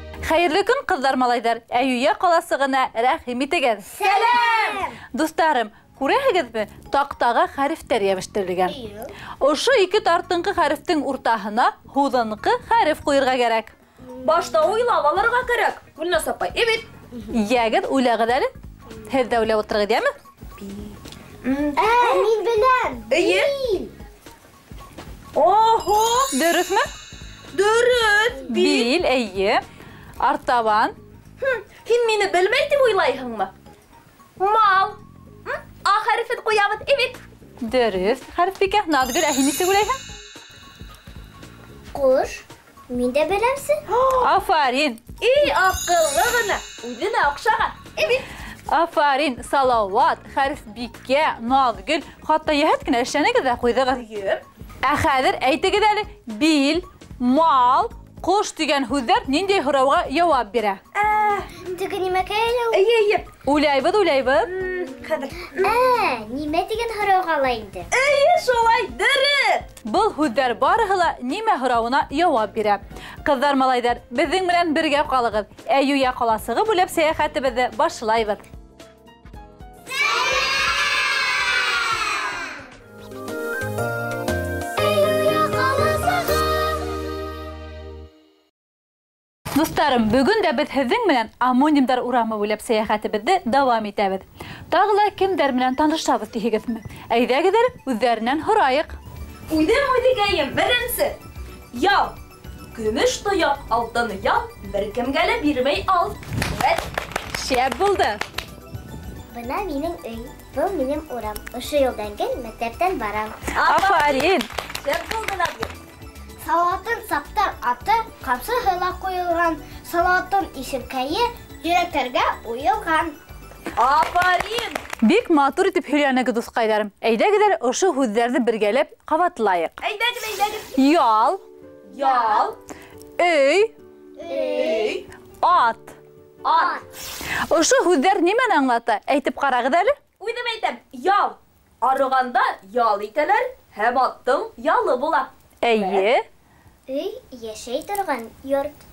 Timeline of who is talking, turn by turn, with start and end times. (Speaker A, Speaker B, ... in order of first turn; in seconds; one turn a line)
Speaker A: 0.2-3.9
Speaker B: 3.9-5.0
Speaker C: 4.0-4.9
Speaker A: 5.1-8.8
Speaker B: 8.7-9.1
Speaker A: 9.4-13.7
Speaker B: 14.1-14.8
Speaker C: 14.2-16.9
Speaker B: 17.1-17.4
Speaker A: 17.3-18.5
Speaker A: 19.1-20.1
Speaker C: 20.6-22.3
Speaker B: 21.8-23.9
Speaker C: 23.1-23.5
Speaker C: 25.3-26.3
Speaker A: 26.3-26.9
Speaker C: 27.5-28.9
Speaker A: 28.5-29.6
Speaker A: 30.2-30.9
Speaker C: 31.4-33.5
Speaker C: 34.4-37.2
Speaker A: 37.6-40.0
Speaker B: 41.9-43.8
Speaker C: 43.9-44.3
Speaker A: 44.2-45.0
Speaker C: 45.2-48.2
Speaker A: 48.7-54.0
Speaker C: 53.9-54.4
Speaker A: 54.8-60.8
Speaker C: 60.9-61.5
Speaker B: 61.5-62.8
Speaker C: 62.7-63.3
Speaker A: 63.5-64.5
Speaker C: 64.5-65.8
Speaker B: 65.5-67.9
Speaker C: 67.9-69.7
Speaker A: 69.8-78.4
Speaker B: 79.9-82.4
Speaker B: 84.8-87.2
Speaker A: 89.5-99.0
Speaker C: 99.5-101.2
Speaker C: 101.7-102.1
Speaker C: 102.7-106.9
Speaker A: 107.3-108.2
Speaker B: 109.3-113.4
Speaker C: 113.5-115.7
Speaker A: 113.6-114.5
Speaker B: 116.4-123.2
Speaker C: 123.8-124.8
Speaker A: 125.0-129.8
Speaker C: 129.8-130.8
Speaker A: 130.8-131.4
Speaker B: 131.9-132.5
Speaker C: 131.9-132.6
Speaker A: 133.2-133.7
Speaker B: 134.2-135.0
Speaker C: 134.4-135.1
Speaker A: 135.4-135.9
Speaker C: 136.4-136.8
Speaker B: 136.5-136.8
Speaker A: 137.5-139.9
Speaker C: 140.2-146.1
Speaker A: 145.6-146.2
Speaker B: 146.9-148.8